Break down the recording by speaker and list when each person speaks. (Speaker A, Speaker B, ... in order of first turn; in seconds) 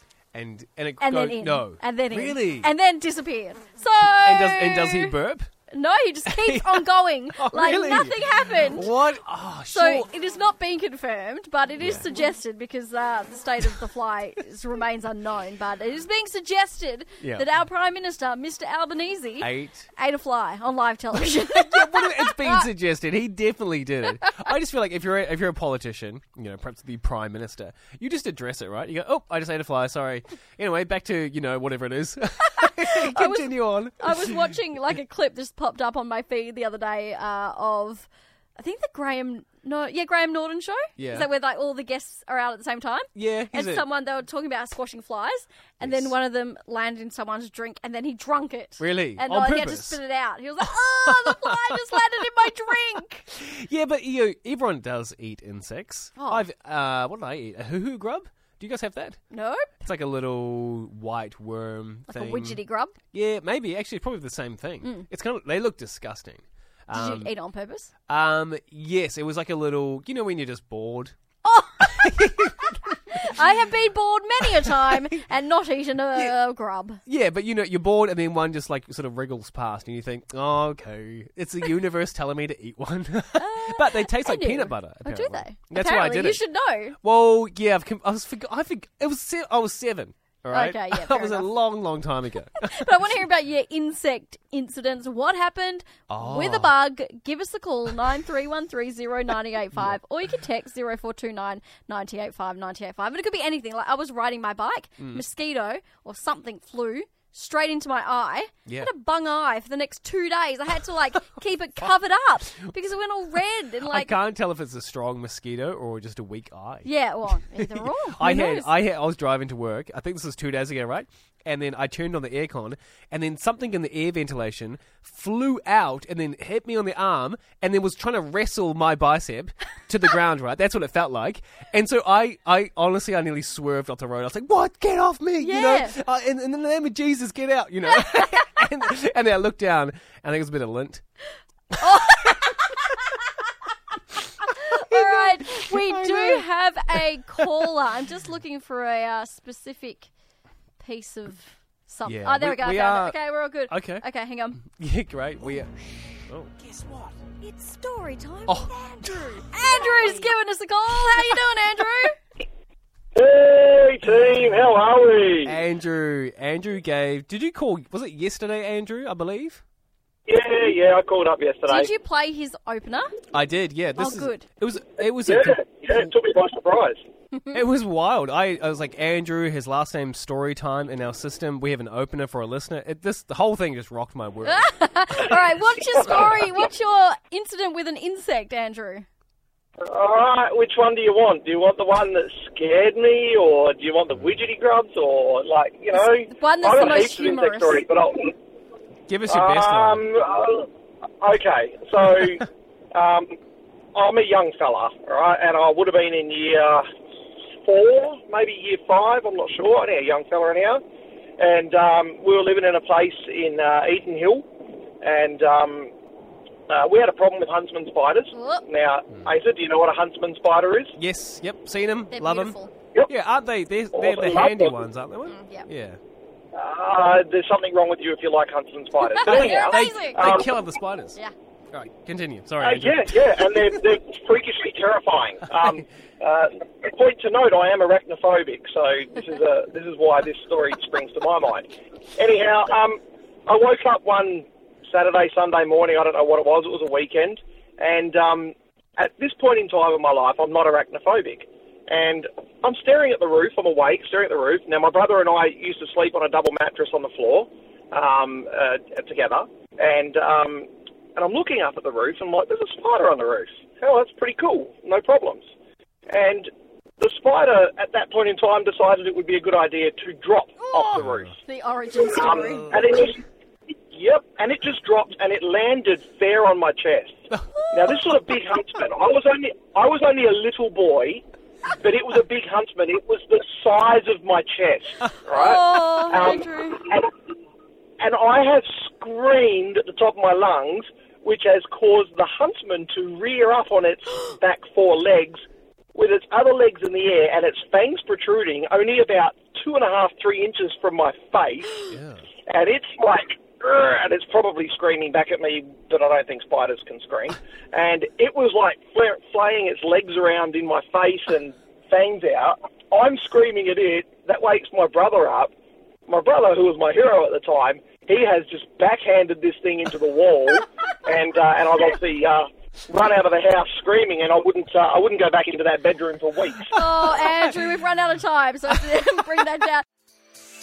Speaker A: 0.3-2.7, 4.0-5.5, 6.3-6.8, 7.3-10.1, 11.8-12.1, 17.2-17.5, 19.4-19.9, 21.1-34.6, 41.0-41.3, 43.1-43.9, 45.8-46.1, 48.8-50.0, 51.1-51.8, 53.3-59.2, 59.8-62.6, 63.1-67.3, 68.1-71.1, 71.8-73.3, 74.6-75.1, 77.1-86.4, 87.0-93.1, 96.1-96.7, 113.8-116.9, 117.5-141.0, 141.8-142.8, 144.9-147.7, 152.1-153.2, 153.7-154.0, 154.6-157.0, 158.5-160.1, 165.4-169.6, 173.3-176.0, 177.5-184.7, 199.1-200.1, 221.0-226.0, 229.2-231.2, 231.7-233.5, 270.8-271.3, 301.9-302.3
Speaker B: 1.0-5.2, 5.7-8.9, 9.7-22.7, 32.6-53.3, 56.2-56.5, 59.3-59.7, 62.1-63.0, 66.9-67.9, 71.4-77.0, 83.4-87.0, 90.5-91.5, 92.6-114.2, 116.8-118.7, 135.4-136.0, 141.8-143.0, 144.5-150.1, 150.8-154.6, 157.4-162.2, 171.7-173.1, 174.0-174.4, 177.3-177.6, 184.4-189.1, 196.3-197.8, 218.3-218.7, 222.1-222.7, 225.3-225.7, 229.0-230.2, 271.4-273.0, 285.3-286.9, 326.7-329.9
Speaker C: 163.2-165.6, 170.3-171.9, 175.3-177.0, 186.0-186.4, 189.8-198.3, 199.3-200.7, 201.2-203.3, 203.9-206.8, 207.7-210.8, 211.4-214.5, 215.0-215.9, 216.7-220.9, 223.9-224.8, 226.6-230.5, 232.6-265.4, 266.1-271.4, 271.9-273.2, 273.9-277.2, 277.7-287.1, 288.0-295.4, 295.9-301.8, 302.5-315.5, 316.1-326.8